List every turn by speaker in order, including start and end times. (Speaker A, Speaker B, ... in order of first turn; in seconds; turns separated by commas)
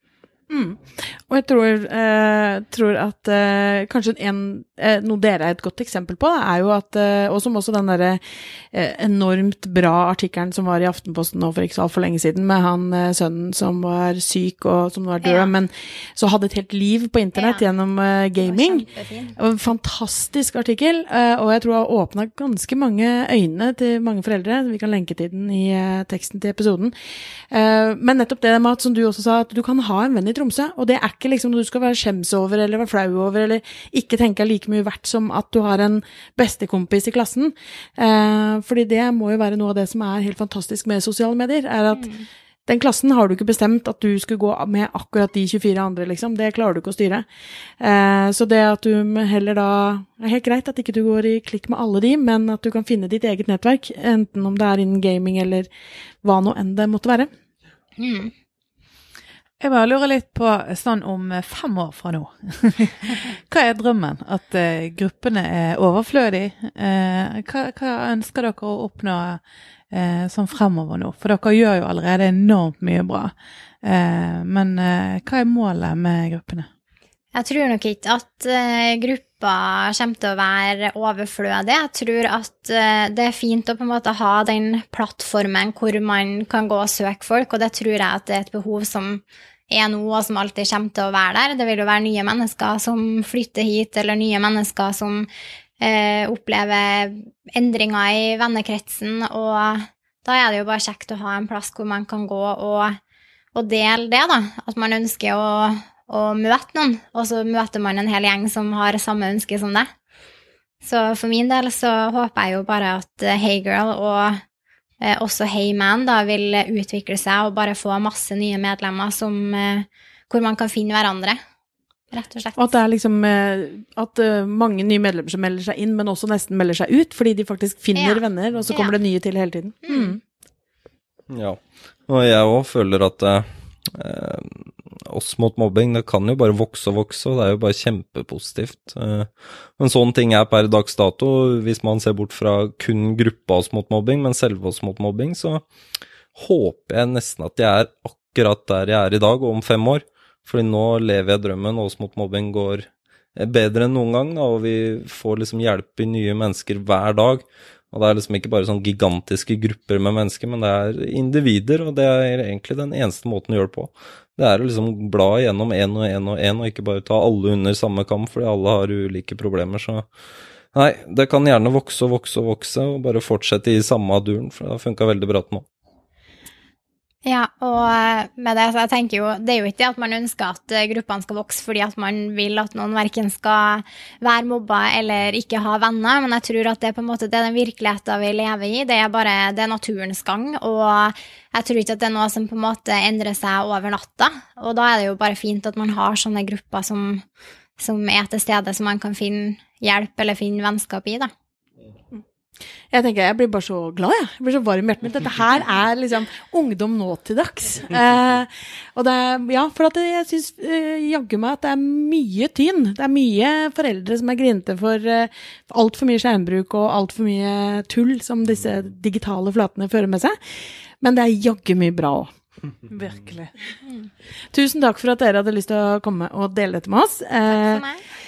Speaker A: 0.5-26.9, Speaker B: 15.2-15.5, Speaker B: 17.4-17.7, Speaker B: 18.4-19.4, Speaker A: 27.5-42.1, Speaker B: 41.9-42.3, Speaker A: 42.7-47.3, Speaker A: 47.8-55.7, Speaker A: 56.2-57.3, Speaker B: 58.0-58.3, Speaker C: 59.6-73.3, Speaker C: 73.8-76.7, Speaker B: 77.3-95.3, Speaker B: 95.8-103.0, Speaker B: 103.5-109.9, Speaker B: 110.8-114.4, Speaker B: 115.0-121.4, Speaker B: 122.1-122.8, Speaker A: 122.6-130.2, Speaker B: 128.0-128.9, Speaker B: 129.9-130.2, Speaker D: 131.3-145.6, Speaker D: 146.3-170.1, Speaker D: 170.7-175.7, Speaker B: 177.2-197.2, Speaker B: 197.8-201.3, Speaker A: 202.9-222.3, Speaker C: 222.9-223.5, Speaker A: 224.5-227.8, Speaker B: 227.5-228.0